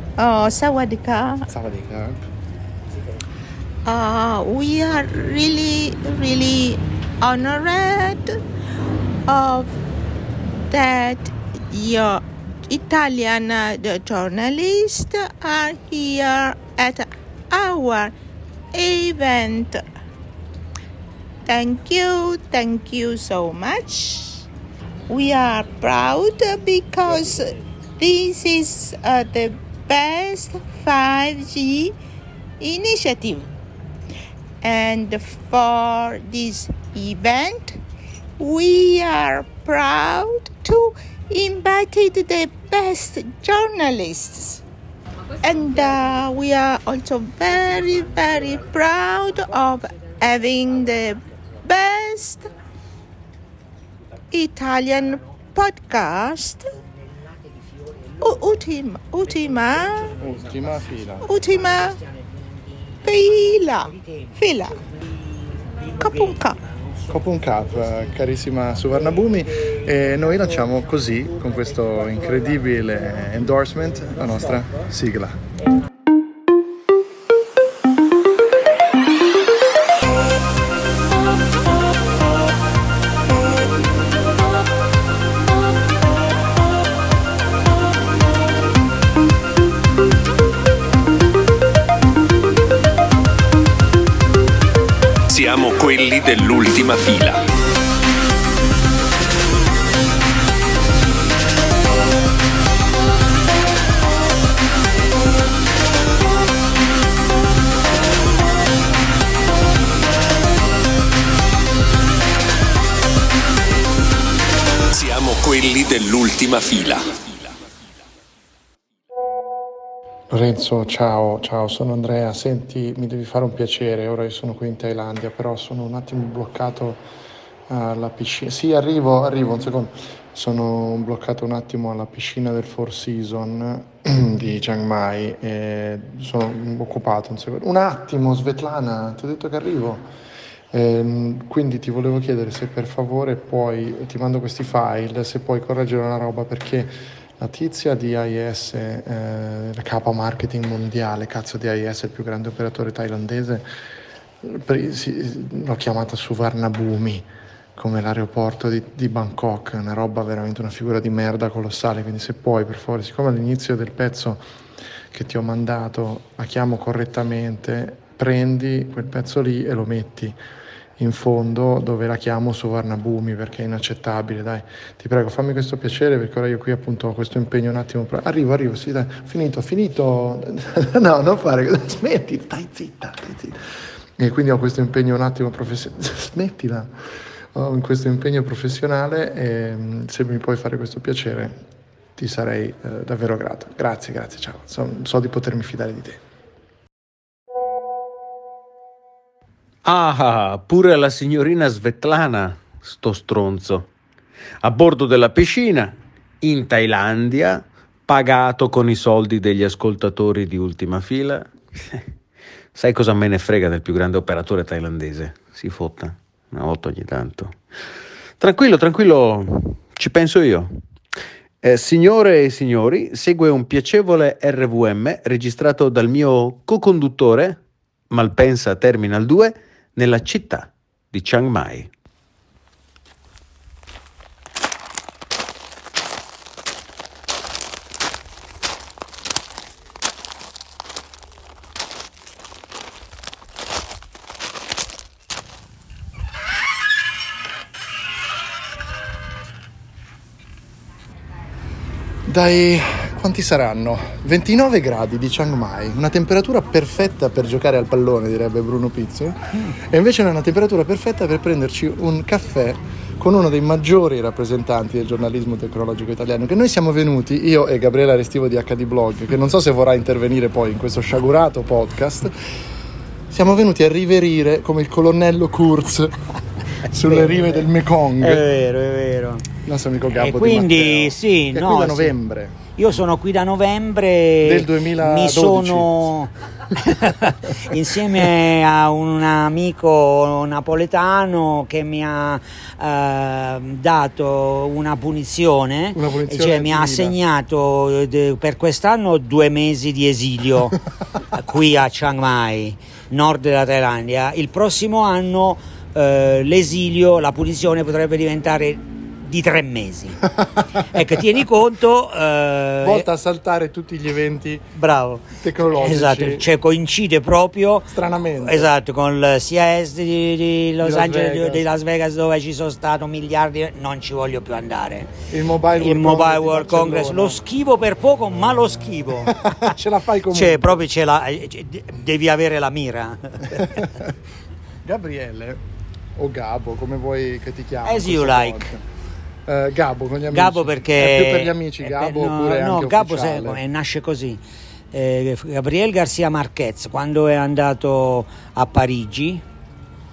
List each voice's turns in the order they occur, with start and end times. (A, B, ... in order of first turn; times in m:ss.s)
0:00.2-0:01.4 A
0:01.5-0:02.2 B
0:03.8-0:08.4 A
0:09.3-0:09.7 A
0:10.7-0:18.1 A
0:18.7-0:19.8 A
0:21.4-0:24.5 A
0:25.1-0:31.9 A
0:32.6-0:33.5 A
0:34.6-0:37.8 A
0:38.4-0:44.6 A
0:45.4-0:52.5 A
0:54.3-0:56.7 A
0:57.5-0:58.2 C
0:58.2-1:00.1 A
1:00.2-1:01.3 B
1:01.2-1:02.0 A
1:02.0-1:07.1 C
1:03.0-1:04.8 A
1:06.0-1:06.6 A
1:07.1-1:15.4 B
1:35.3-1:37.4 D
1:54.9-1:57.5 D
2:00.3-2:07.0 B
2:07.7-2:20.1 B
2:20.7-2:33.6 B
2:34.4-2:44.4 B
2:45.1-2:50.4 B
2:51.0-3:03.6 B
3:04.2-3:06.9 B
3:07.5-3:11.6 B
3:12.2-3:16.2 B
3:19.8-3:23.9 E
3:24.6-3:32.0 E
3:32.7-3:37.6 E
3:38.4-3:40.7 E
3:41.6-3:51.9 E
4:12.3-4:32.3 B
4:33.3-4:36.2 B
4:36.8-4:38.4 B
4:37.0-4:37.6 C
4:38.2-4:39.4 C
4:39.6-4:42.6 B
4:40.1-4:42.1 C
4:42.8-5:10.2 C
4:44.4-4:46.1 B
4:55.9-4:57.2 B
5:10.8-5:13.0 C
5:12.8-5:14.6 B
5:14.8-5:17.9 C
5:15.4-5:16.5 B
5:17.9-5:18.7 B
5:18.4-5:25.1 C
5:20.8-5:21.7 B
5:25.3-5:27.4 B
5:25.7-5:29.4 C
5:29.2-5:30.8 B
5:30.3-5:34.0 C
5:34.8-5:35.6 B
5:36.2-5:38.8 B
5:37.8-5:38.7 C
5:39.4-5:43.6 B
5:40.3-5:44.4 C
5:44.9-5:49.4 C